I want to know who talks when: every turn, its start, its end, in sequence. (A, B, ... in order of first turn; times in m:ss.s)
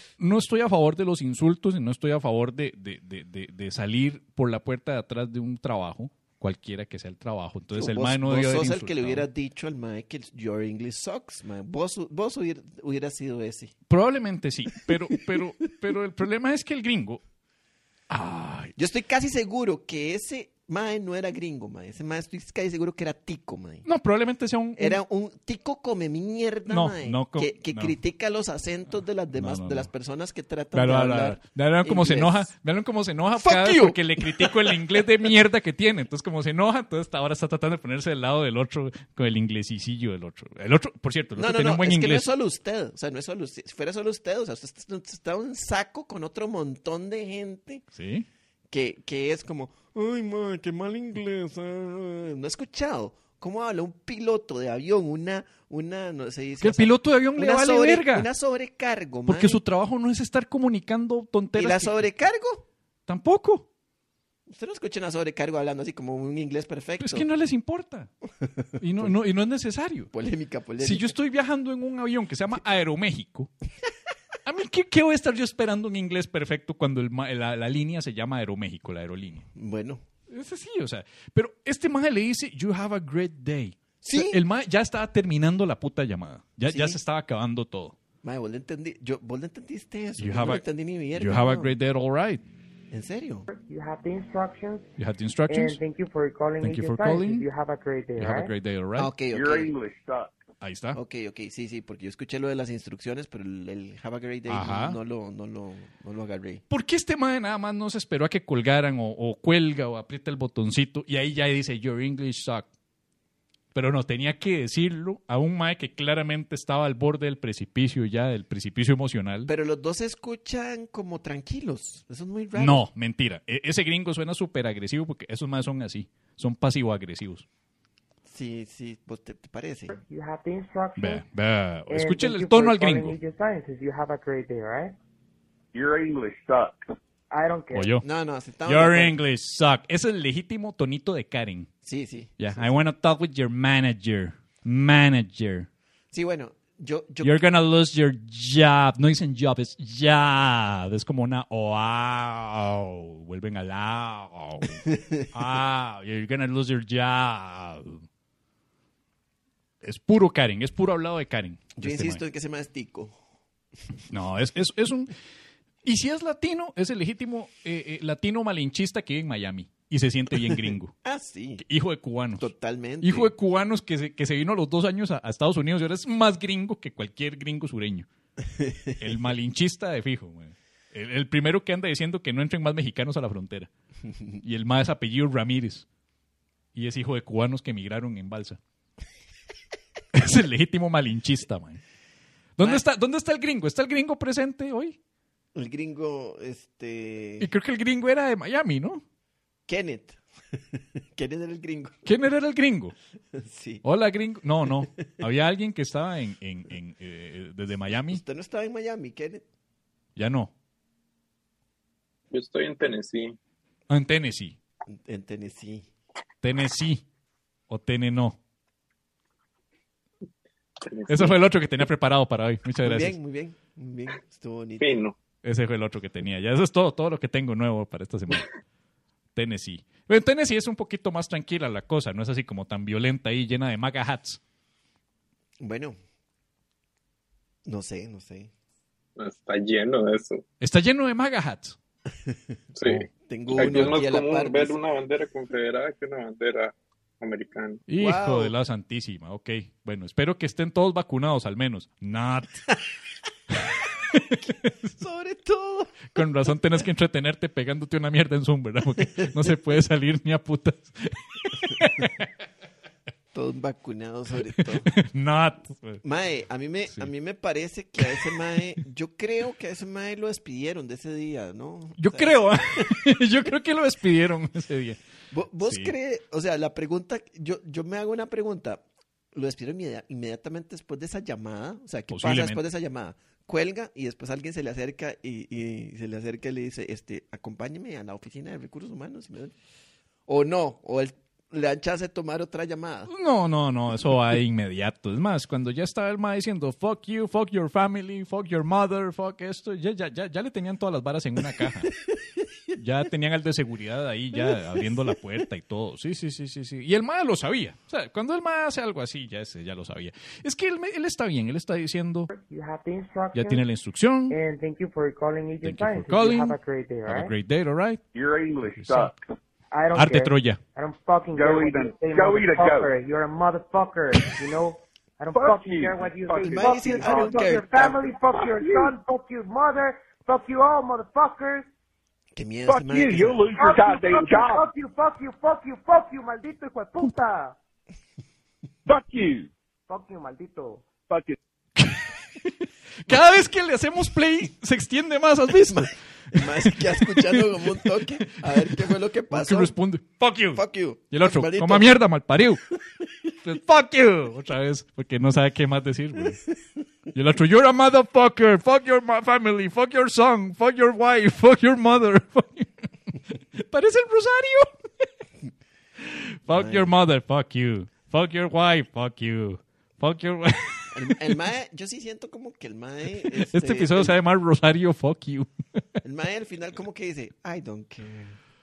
0:00.2-0:09.3 A
0:07.7-0:13.7 B
0:13.9-0:17.2 A
0:14.8-0:15.4 B
0:18.1-0:18.7 A
0:18.8-0:23.8 B
0:23.8-0:25.0 A
0:24.8-0:32.5 B
0:26.6-0:28.0 A
0:29.4-0:29.9 A
0:30.7-0:42.3 A
0:33.4-0:35.1 B
0:41.4-0:47.8 B
0:47.9-0:48.2 A
0:48.7-0:59.6 B
0:56.6-0:58.3 A
0:59.3-1:02.0 A
1:01.6-1:02.6 B
1:03.1-1:03.7 A
1:04.5-1:07.3 B
1:07.0-1:08.1 A
1:08.4-1:09.2 B
1:08.8-1:10.1 A
1:10.1-1:11.1 B
1:10.8-1:13.5 A
1:14.4-1:19.5 A
1:19.5-1:20.0 B
1:20.3-1:28.0 A
1:24.0-1:24.4 B
1:26.7-1:27.0 B
1:28.2-1:31.7 B
1:30.2-1:32.4 A
1:32.9-1:33.5 B
1:33.5-1:34.9 C
1:35.0-1:35.8 A
1:35.5-1:38.5 C
1:36.6-1:37.4 A
1:38.2-1:39.1 A
1:39.0-1:39.7 B
1:39.3-1:40.3 D
1:40.6-1:41.0 A
1:40.9-1:46.6 B
1:44.5-1:45.0 A
1:46.7-1:52.7 A
1:53.7-1:59.5 A
1:59.5-2:02.8 B
2:02.5-2:07.4 A
2:08.2-2:09.9 B
2:09.9-2:11.2 C
2:11.0-2:13.2 A
2:11.9-2:15.0 C
2:15.7-2:16.8 D
2:17.3-2:18.0 C
2:17.7-2:18.0 A
2:18.0-2:19.2 B
2:18.6-2:21.7 A
2:21.8-2:22.7 B
2:22.4-2:25.7 A
2:26.1-2:27.3 B
2:27.2-2:38.0 A
2:34.9-2:35.3 B
2:39.8-2:42.2 A
2:41.8-2:43.1 B
2:44.1-2:45.1 A
2:45.8-2:50.9 A
2:51.0-2:51.6 B
2:51.6-2:52.5 A
2:52.4-2:53.3 B
2:53.0-2:58.1 A
2:58.6-2:59.0 B
2:59.0-3:03.7 A
3:04.4-3:05.8 A
3:06.7-3:08.6 A
3:10.1-3:11.8 A
3:12.6-3:15.0 A
3:15.5-3:17.5 B
3:17.4-3:19.0 A
3:19.7-3:20.2 B
3:20.8-3:22.0 B
3:22.0-3:22.9 A
3:23.4-3:23.8 B
3:23.8-3:28.2 A
3:28.1-3:29.4 B
3:30.2-3:30.5 A
3:32.3-3:33.4 E
3:33.9-3:34.6 A
3:34.9-3:35.9 B
3:36.4-3:37.0 A
3:37.7-3:38.4 A
3:40.8-3:41.4 E
3:41.1-3:43.2 A
3:42.8-3:45.0 B
3:44.8-3:45.2 E
3:45.4-3:48.5 A
3:49.4-3:54.4 A
3:55.6-3:56.0 B
3:57.6-3:58.5 B
3:59.2-4:00.4 E
4:00.6-4:01.8 A
4:02.8-4:07.8 E
4:02.8-4:04.0 A
4:03.3-4:04.8 B
4:07.9-4:12.6 A
4:08.0-4:08.5 B
4:13.5-4:14.7 A
4:15.0-4:16.1 B
4:16.1-4:22.3 A
4:23.3-4:24.9 B
4:24.8-4:26.0 A
4:26.0-4:32.9 B
4:28.0-4:28.3 A
4:32.0-4:35.0 A
4:35.3-4:38.8 B
4:35.6-4:35.9 A
4:39.3-4:49.5 B
4:42.1-4:42.6 A
4:50.3-4:53.1 B
4:53.1-5:01.9 A
5:02.8-5:12.3 A
5:12.3-5:13.6 C
5:13.3-5:14.4 A
5:14.3-5:17.3 C
5:15.6-5:18.0 A
5:18.1-5:19.2 D
5:18.8-5:19.1 A
5:19.7-5:31.7 C
5:19.9-5:20.6 A
5:21.3-5:22.9 D
5:25.3-5:29.0 D
5:26.4-5:28.0 B
5:32.4-5:33.4 B
5:32.7-5:34.6 D
5:33.6-5:37.6 C
5:38.9-5:39.5 D
5:39.9-5:40.9 C
5:41.1-5:41.3 D
5:41.8-5:52.6 A
5:45.7-5:49.7 B
5:50.5-5:51.9 B
5:53.4-5:56.4 A
5:57.1-6:04.8 A
6:06.0-6:11.4 A
6:06.5-6:06.9 B
6:10.9-6:14.1 B
6:13.2-6:15.5 A
6:16.0-6:18.4 B